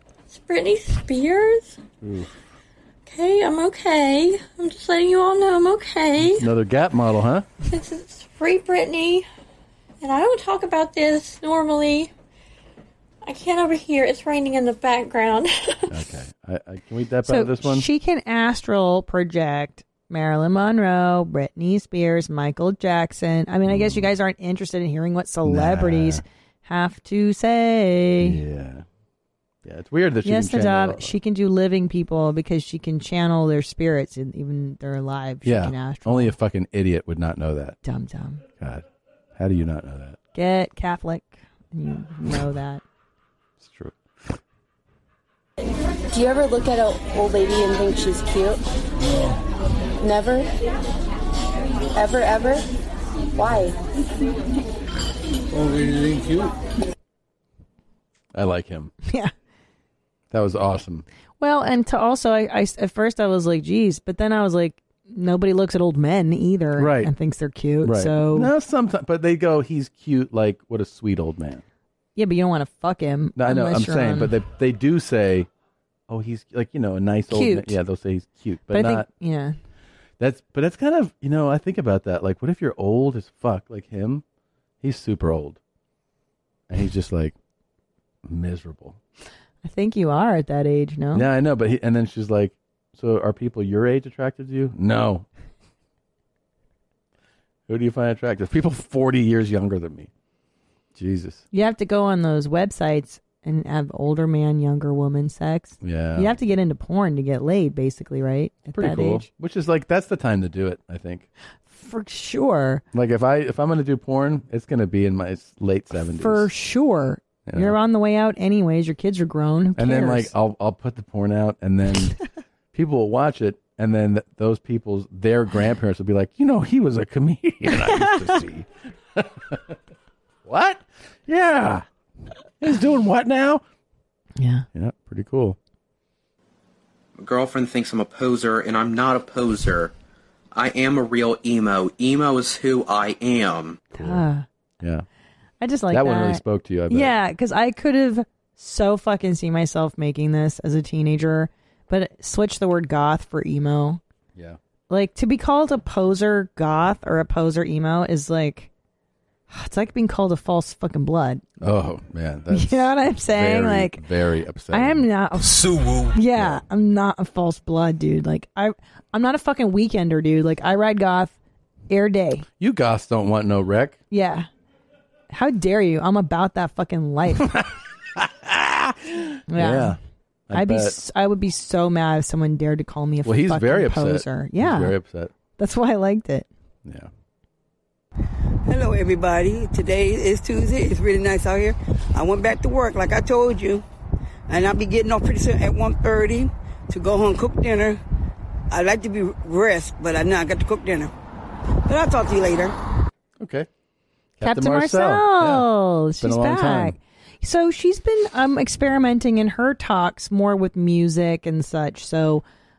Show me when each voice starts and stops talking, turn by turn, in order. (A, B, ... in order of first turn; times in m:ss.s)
0:00.5-0:01.7 A
0:02.0-0:02.3 B
0:03.1-0:06.4 A
0:06.2-0:07.5 B
0:07.7-0:09.2 A
0:10.0-0:12.1 A
0:13.3-0:15.5 A
0:15.9-0:17.9 B
0:17.3-0:28.4 C
0:23.6-0:24.1 B
0:25.4-0:26.2 B
0:28.2-0:28.8 B
0:29.6-0:31.1 B
0:30.2-0:36.3 C
0:35.4-0:37.8 B
0:37.8-0:38.4 C
0:38.6-0:40.2 B
0:40.3-0:42.8 C
0:43.6-0:44.4 B
0:46.1-0:48.6 D
0:50.0-0:50.5 D
0:51.9-0:52.6 D
0:53.3-0:53.8 D
0:58.3-0:58.9 B
1:00.3-1:01.0 B
1:01.4-1:08.5 C
1:06.8-1:07.1 B
1:07.8-1:11.6 B
1:12.2-1:14.3 C
1:13.4-1:15.5 B
1:16.1-1:19.0 B
1:17.3-1:17.8 C
1:18.7-1:19.6 C
1:20.2-1:24.2 B
1:24.8-1:25.6 B
1:26.7-1:27.3 B
1:28.2-1:29.0 B
1:29.6-1:31.3 C
1:31.1-1:35.2 B
1:37.7-1:40.1 B
1:41.0-1:41.4 B
1:41.5-1:49.2 C
1:45.8-1:46.3 B
1:48.7-1:51.3 B
1:51.7-1:52.8 C
1:52.9-1:56.5 B
1:56.2-2:00.3 C
1:57.4-1:57.8 B
1:59.8-2:02.1 B
2:02.7-2:09.8 B
2:07.9-2:08.2 C
2:10.4-2:11.8 B
2:12.6-2:13.6 B
2:14.4-2:14.6 C
2:14.7-2:15.6 B
2:17.2-2:19.9 E
2:20.5-2:23.8 E
2:23.9-2:24.4 C
2:24.0-2:24.2 B
2:24.8-2:25.0 B
2:25.6-2:34.0 C
2:25.9-2:27.1 B
2:34.9-2:38.7 C
2:39.5-2:41.5 C
2:41.6-2:45.1 B
2:42.5-2:44.0 C
2:44.7-2:51.4 C
2:46.3-2:46.6 B
2:51.9-2:52.4 C
2:52.6-2:54.0 B
2:54.1-2:54.5 C
2:55.3-2:57.5 C
2:57.4-3:00.0 B
2:59.5-3:00.0 C
3:00.5-3:01.0 B
3:00.5-3:04.9 C
3:03.2-3:05.3 B
3:05.6-3:06.5 C
3:06.8-3:07.1 B
3:08.6-3:13.8 F
3:14.5-3:18.0 F
3:18.7-3:21.1 F
3:21.8-3:22.7 F
3:23.4-3:23.7 B
3:24.4-3:32.4 C
3:24.4-3:25.7 B
3:26.2-3:27.0 B